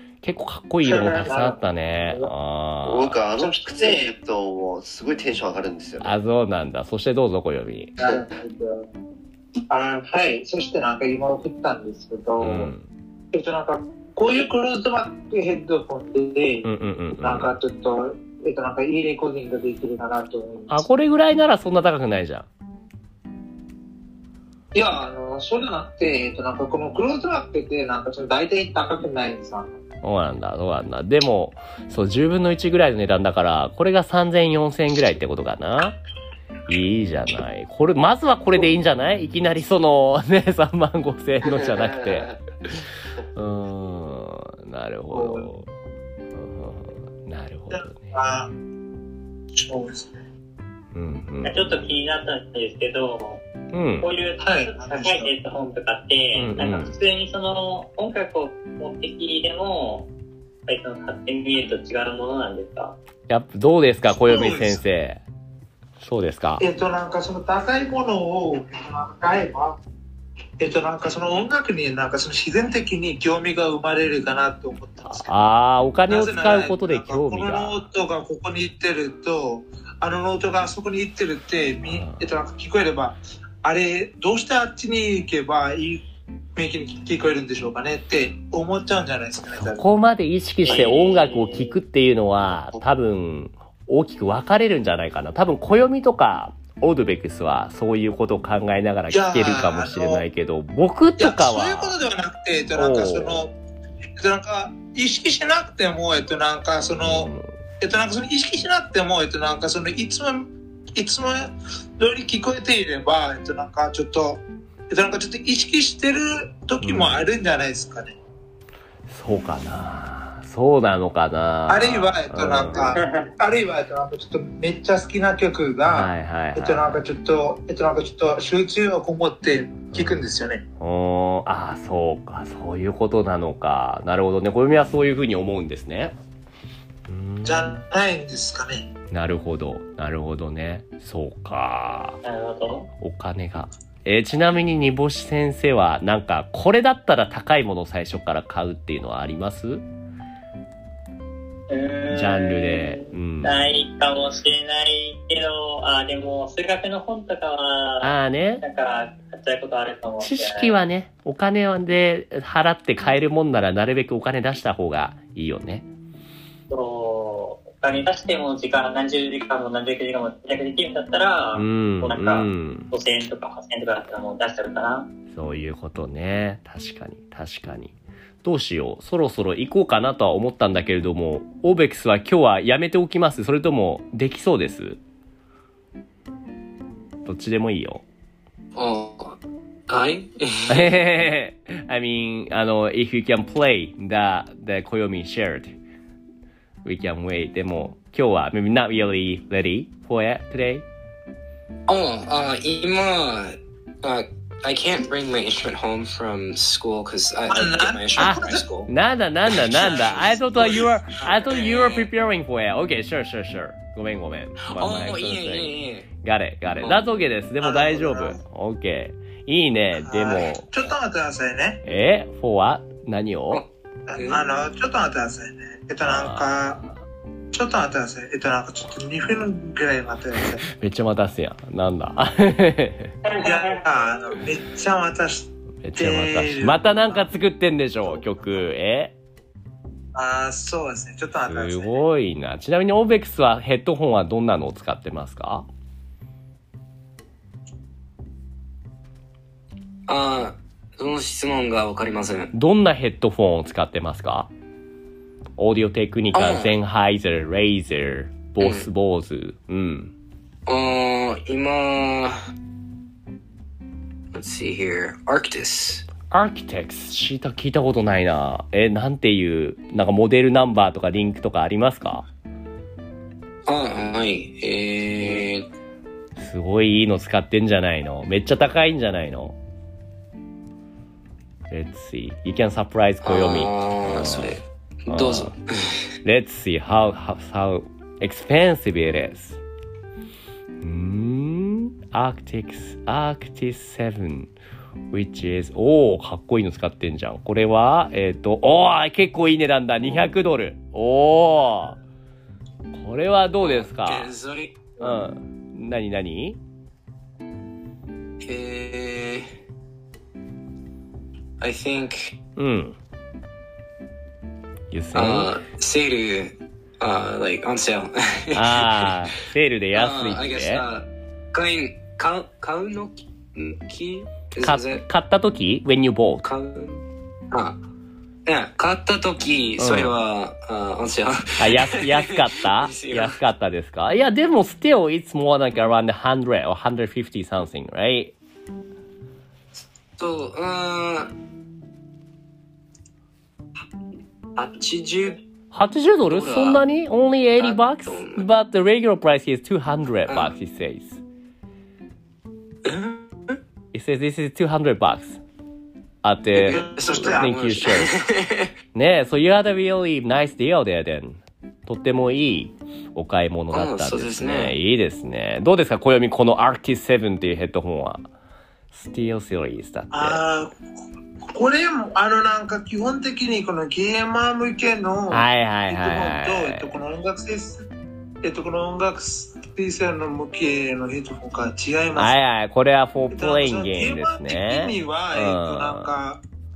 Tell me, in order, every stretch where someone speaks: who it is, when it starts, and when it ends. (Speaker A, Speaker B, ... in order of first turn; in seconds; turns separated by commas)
Speaker A: 0.2-3.2, Speaker B: 0.8-2.3, Speaker C: 2.8-6.2, Speaker B: 3.4-4.1, Speaker A: 6.0-7.9, Speaker B: 8.0-8.8, Speaker B: 9.7-12.7, Speaker A: 12.4-12.9, Speaker B: 13.3-20.8, Speaker A: 16.6-17.5, Speaker A: 20.7-22.5, Speaker B: 24.7-29.7, Speaker A: 30.0-36.0, Speaker A: 36.7-42.8, Speaker C: 41.4-42.3, Speaker A: 43.3-45.7, Speaker B: 45.1-45.5, Speaker A: 46.3-48.1, Speaker B: 47.7-48.5, Speaker B: 49.5-50.2, Speaker A: 50.9-51.9, Speaker D: 51.4-53.4, Speaker A: 53.7-54.1, Speaker D: 54.0-60.1, Speaker B: 54.4-55.3, Speaker A: 56.3-56.9, Speaker D: 60.6-63.0, Speaker A: 63.3-65.2, Speaker B: 64.1-64.8, Speaker A: 66.0-66.6, Speaker B: 66.6-69.8, Speaker B: 70.6-75.3, Speaker A: 75.0-77.9, Speaker B: 76.1-86.0, Speaker A: 81.8-82.3, Speaker B: 86.5-89.8, Speaker A: 89.5-102.0, Speaker D: 90.7-91.8, Speaker C: 90.7-91.2, Speaker B: 99.1-100.2, Speaker B: 101.2-103.5, Speaker A: 102.7-103.4, Speaker B: 104.2-118.2, Speaker A: 107.0-107.5, Speaker A: 116.8-117.2, Speaker A: 119.1-122.9, Speaker B: 121.7-130.6, Speaker D: 123.0-123.3, Speaker A: 125.8-127.0, Speaker A: 129.9-130.2, Speaker A: 130.8-136.2, Speaker A: 137.1-137.8, Speaker B: 137.4-138.9, Speaker A: 139.1-142.2, Speaker D: 142.2-142.9, Speaker A: 143.0-149.8, Speaker D: 151.7-160.8, Speaker A: 152.1-153.7, Speaker A: 158.0-158.6, Speaker A: 160.2-165.9, Speaker D: 166.7-175.1, Speaker A: 171.5-172.9, Speaker A: 175.3-185.0, Speaker A: 187.2-188.0, Speaker E: 188.8-190.9, Speaker A: 190.7-195.8, Speaker A: 196.8-200.8, Speaker E: 201.9-208.9, Speaker B: 207.5-208.6, Speaker A: 208.2-220.9, Speaker E: 209.5-212.1, Speaker E: 214.7-216.1, Speaker B: 217.6-218.4, Speaker B: 219.9-221.8, Speaker A: 221.8-223.6, Speaker E: 223.5-224.4, Speaker B: 224.1-226.8, Speaker A: 226.0-226.9, Speaker B: 227.5-230.6, Speaker A: 230.7-233.2, Speaker D: 233.2-233.8, Speaker B: 233.4-237.3, Speaker A: 235.8-239.1, Speaker B: 240.1-242.0, Speaker A: 241.5-245.7, Speaker E: 250.1-252.5, Speaker A: 252.5-254.5, Speaker A: 255.6-260.1, Speaker E: 256.3-256.8, Speaker E: 258.6-258.9, Speaker E: 260.6-262.5, Speaker E: 264.3-266.1, Speaker A: 266.3-272.3, Speaker E: 273.6-275.7, Speaker A: 276.4-279.6, Speaker A: 281.7-285.5, Speaker E: 283.2-286.0, Speaker A: 286.2-289.6, Speaker A: 290.8-294.5, Speaker A: 295.1-302.0, Speaker E: 300.0-300.3, Speaker A: 302.9-304.3, Speaker E: 303.6-305.2, Speaker A: 305.0-306.6, Speaker E: 308.4-309.5, Speaker E: 311.6-312.3, Speaker A: 312.6-313.0, Speaker A: 314.9-315.5, Speaker E: 315.1-319.1, Speaker A: 318.5-320.8, Speaker E: 319.9-325.0, Speaker A: 324.6-326.4, Speaker E: 326.4-327.8, Speaker E: 328.4-333.4, Speaker A: 329.8-330.1, Speaker A: 331.6-338.3, Speaker E: 340.2-341.3, Speaker E: 344.6-345.4, Speaker A: 345.7-351.2, Speaker E: 346.3-346.8, Speaker E: 347.6-348.5, Speaker E: 352.8-353.6, Speaker A: 353.9-355.4, Speaker A: 356.2-358.1, Speaker E: 356.5-358.7, Speaker B: 356.7-357.5, Speaker A: 358.9-368.3, Speaker E: 363.7-364.7, Speaker A: 368.9-370.4, Speaker B: 370.1-370.8, Speaker B: 371.4-377.8, Speaker A: 375.3-376.9, Speaker B: 378.4-382.3, Speaker A: 382.1-386.1, Speaker B: 383.3-386.4